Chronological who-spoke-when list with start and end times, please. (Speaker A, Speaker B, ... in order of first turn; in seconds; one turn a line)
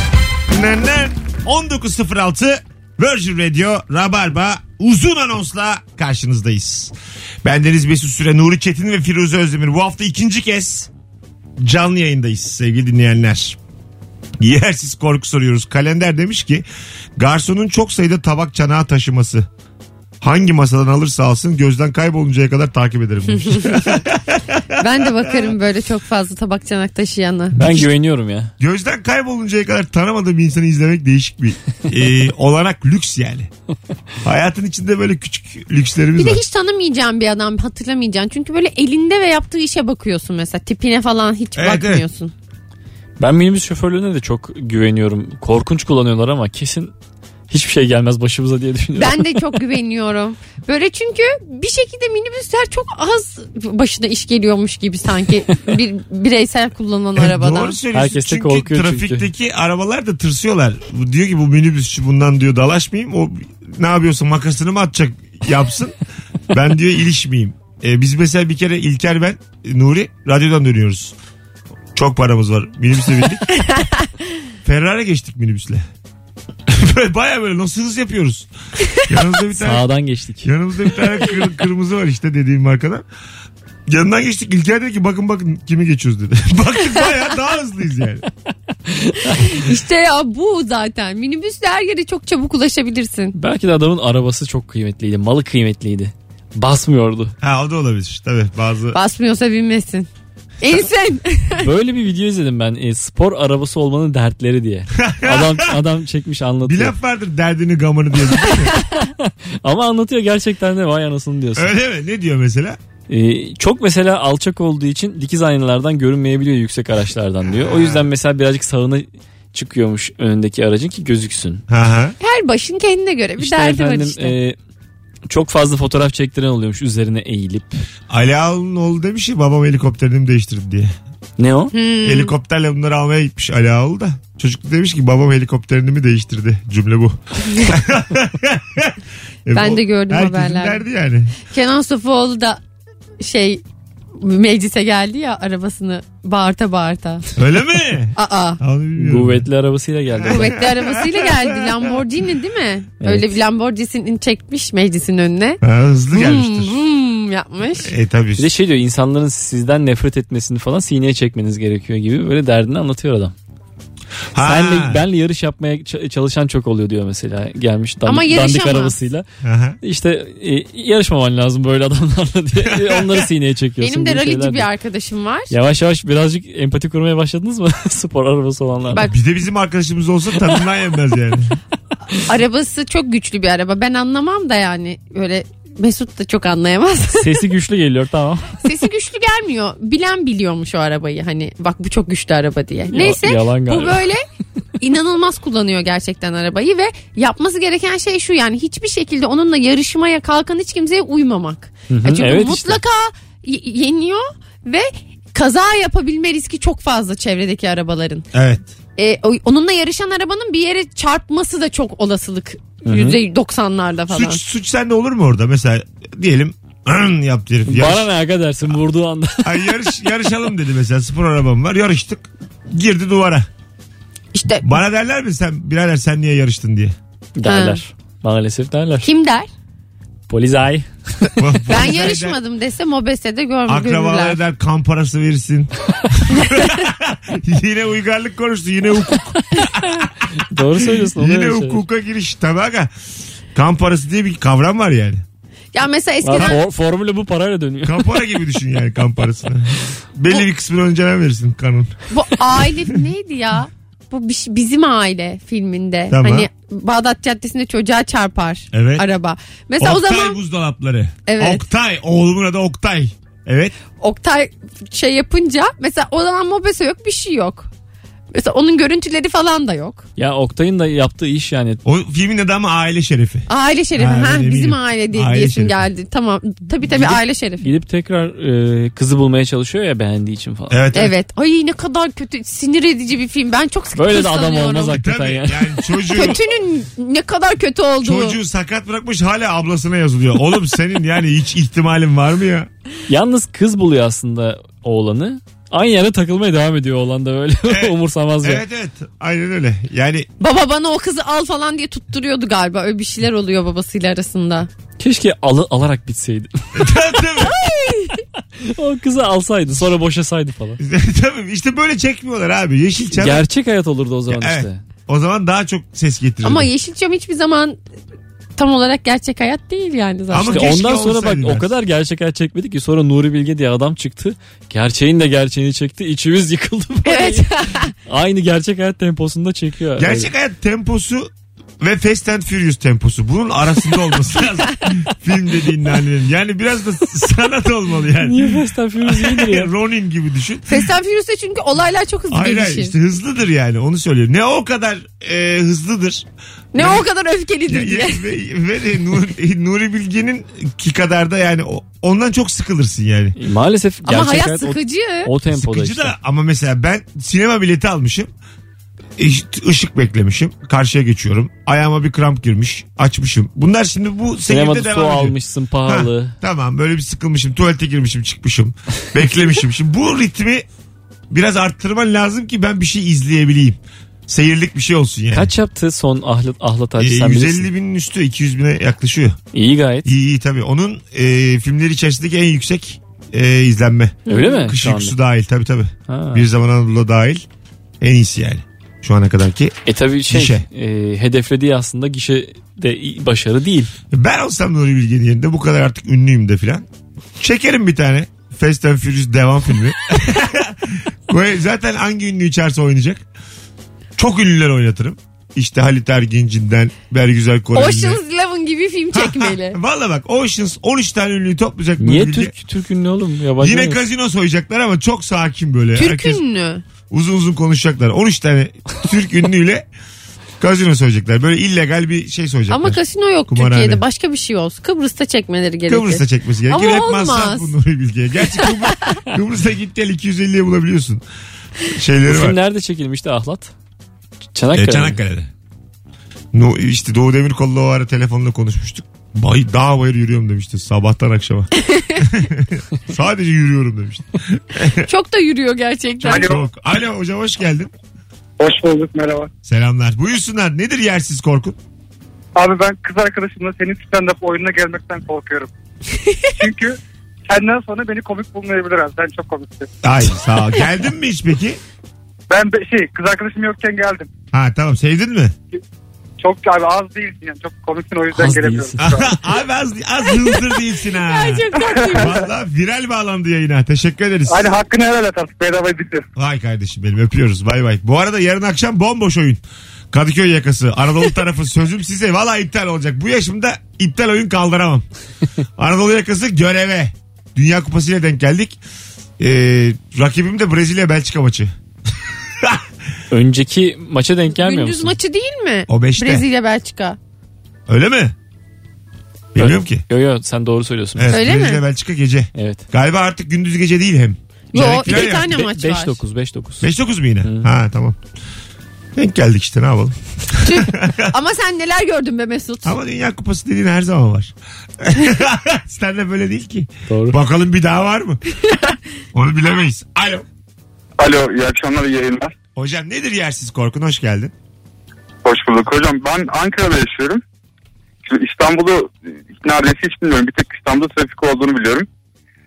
Speaker A: 0.5-6.9
Speaker A: 7.4-10.9
Speaker A: 11.6-13.6
Speaker A: 14.4-16.6
Speaker A: 17.2-19.5
Speaker A: 20.2-25.5
Speaker B: 23.4-24.0
Speaker B: 24.8-27.6
Speaker A: 27.5-27.9
Speaker C: 27.6-28.5
Speaker A: 28.6-33.5
Speaker A: 34.2-36.4
Speaker B: 36.2-42.3
Speaker A: 41.5-42.0
Speaker C: 43.2-46.9
Speaker C: 47.5-49.4
Speaker B: 49.0-57.8
Speaker A: 57.1-65.9
Speaker C: 57.9-59.3
Speaker A: 66.5-71.1
Speaker A: 71.9-73.5
Speaker A: 74.6-75.8
Speaker A: 76.7-79.8
Speaker C: 79.5-80.5
Speaker A: 80.4-83.0
Speaker A: 83.9-88.3
Speaker B: 89.3-93.3
Speaker C: 93.3-97.3
Speaker A: 97.4-99.0
Speaker B: 98.9-100.1
Speaker B: 100.6-101.7
Speaker C: 101.6-106.9
Speaker A: 105.0-105.8
Speaker A: 106.6-108.8
Speaker B: 108.6-109.0
Speaker C: 109.0-111.7
Speaker A: 111.5-112.8
Speaker C: 113.1-121.6
Speaker A: 117.6-118.0
Speaker A: 121.7-122.2
Speaker B: 122.2-124.4
Speaker C: 123.4-124.5
Speaker C: 125.3-127.8
Speaker A: 128.1-130.9
Speaker C: 131.4-131.7
Speaker B: 131.7-132.3
Speaker A: 132.0-141.3
Speaker B: 139.5-140.8
Speaker B: 141.5-142.6
Speaker B: 143.2-143.6
Speaker B: 144.2-147.3
Speaker A: 147.4-149.4
Speaker B: 148.2-148.6
Speaker C: 149.0-150.6
Speaker A: 150.2-151.9
Speaker B: 150.2-155.6
Speaker C: 153.0-153.3
Speaker A: 155.6-156.8
Speaker B: 156.1-157.9
Speaker A: 157.8-158.5
Speaker C: 158.4-163.3
Speaker A: 164.3-165.0
Speaker C: 164.4-169.2
Speaker B: 168.1-168.9
Speaker A: 169.4-169.8
Speaker C: 169.8-174.7
Speaker A: 172.7-173.2
Speaker B: 173.8-175.5
Speaker C: 175.5-179.0
Speaker B: 178.9-179.2
Speaker A: 178.9-181.6
Speaker B: 182.1-187.4
Speaker C: 187.1-188.6
Speaker B: 188.6-194.2
Speaker C: 192.9-194.0
Speaker B: 194.8-208.3
Speaker C: 201.9-202.8
Speaker A: 208.3-208.7
Speaker B: 209.0-214.4
Speaker C: 212.8-213.2
Speaker A: 214.1-218.1
Speaker C: 217.7-219.7
Speaker A: 219.4-223.5
Speaker B: 224.3-224.7
Speaker A: 224.5-226.9
Speaker C: 227.3-229.1
Speaker B: 227.4-227.8
Speaker B: 229.0-229.5
Speaker C: 230.3-231.4
Speaker B: 231.2-234.4
Speaker A: 231.4-232.4
Speaker A: 233.7-240.3
Speaker C: 240.5-241.8
Speaker A: 240.8-242.9
Speaker A: 243.5-245.2
Speaker B: 245.7-246.6
Speaker C: 246.2-248.1
Speaker A: 247.8-251.9
Speaker B: 252.1-260.4
Speaker A: 256.1-256.5
Speaker A: 258.7-259.0
Speaker A: 259.8-263.7
Speaker B: 261.3-261.6
Speaker B: 264.0-267.7
Speaker B: 268.3-270.1
Speaker C: 270.2-271.8
Speaker A: 271.8-275.8
Speaker B: 273.5-277.7
Speaker A: 276.9-277.2
Speaker C: 277.6-280.9
Speaker A: 280.7-281.1
Speaker B: 280.9-285.0
Speaker C: 283.9-286.2
Speaker A: 284.9-286.4
Speaker B: 286.1-288.4
Speaker A: 288.0-292.7
Speaker C: 293.1-298.6
Speaker A: 297.7-300.3
Speaker B: 300.4-304.7
Speaker C: 305.0-307.0
Speaker A: 306.7-307.6
Speaker B: 307.4-308.2
Speaker C: 308.6-310.8
Speaker A: 310.8-313.4
Speaker C: 313.1-314.8
Speaker A: 314.3-316.7
Speaker B: 316.4-317.8
Speaker B: 318.6-320.6
Speaker A: 320.3-321.7
Speaker C: 320.4-327.5
Speaker B: 327.1-327.9
Speaker C: 328.1-330.3
Speaker A: 330.0-340.9
Speaker C: 338.2-339.7
Speaker B: 340.7-342.9
Speaker A: 342.3-347.1
Speaker B: 346.7-348.2
Speaker A: 347.7-353.4
Speaker C: 353.4-356.1
Speaker B: 354.0-355.3
Speaker A: 355.5-358.3
Speaker A: 359.2-365.3
Speaker C: 364.5-366.3
Speaker A: 365.9-370.6
Speaker A: 371.3-375.5
Speaker C: 375.3-377.7
Speaker A: 377.0-379.4
Speaker C: 379.5-380.1
Speaker A: 380.0-387.4
Speaker B: 384.3-384.7
Speaker C: 384.3-385.1
Speaker C: 386.1-386.4
Speaker A: 388.0-389.8
Speaker C: 389.9-393.9
Speaker A: 390.3-390.6
Speaker A: 394.1-396.9
Speaker A: 397.4-403.2
Speaker A: 404.2-408.2
Speaker B: 407.7-409.8
Speaker A: 409.1-412.5
Speaker C: 412.0-414.0
Speaker A: 413.6-416.4
Speaker B: 415.9-416.8
Speaker A: 417.1-419.8
Speaker A: 420.6-424.0
Speaker B: 422.7-427.7
Speaker A: 425.9-431.2
Speaker B: 428.7-429.2
Speaker A: 431.8-432.6
Speaker C: 432.3-433.7
Speaker C: 434.5-435.2
Speaker A: 434.7-435.5
Speaker A: 436.5-445.1
Speaker B: 441.9-442.2
Speaker B: 445.0-446.6
Speaker A: 446.2-447.9
Speaker D: 446.3-446.6
Speaker D: 448.6-449.5
Speaker A: 449.6-451.8
Speaker D: 452.5-455.7
Speaker D: 456.6-457.0
Speaker D: 457.5-459.9
Speaker A: 460.0-461.8
Speaker D: 462.5-464.3
Speaker A: 464.5-465.5
Speaker D: 466.4-469.3
Speaker C: 468.4-469.1
Speaker A: 469.0-474.7
Speaker B: 470.3-472.4
Speaker D: 471.7-472.4
Speaker D: 474.5-476.2
Speaker A: 476.4-479.6
Speaker A: 480.1-485.0
Speaker A: 485.8-488.8
Speaker A: 489.4-491.7
Speaker A: 492.3-492.9
Speaker C: 493.3-495.1
Speaker B: 494.5-497.2
Speaker A: 495.9-496.4
Speaker A: 497.9-498.3
Speaker A: 499.5-500.0
Speaker C: 499.6-501.6
Speaker A: 501.1-505.6
Speaker B: 501.3-501.8
Speaker C: 502.6-502.8
Speaker B: 504.7-506.1
Speaker C: 505.1-506.9
Speaker A: 506.8-508.2
Speaker A: 509.1-511.3
Speaker B: 510.6-513.0
Speaker A: 512.8-518.4
Speaker C: 517.1-517.4
Speaker A: 519.3-520.5
Speaker E: 521.2-522.5
Speaker A: 522.8-524.5
Speaker E: 525.4-527.4
Speaker E: 528.2-532.1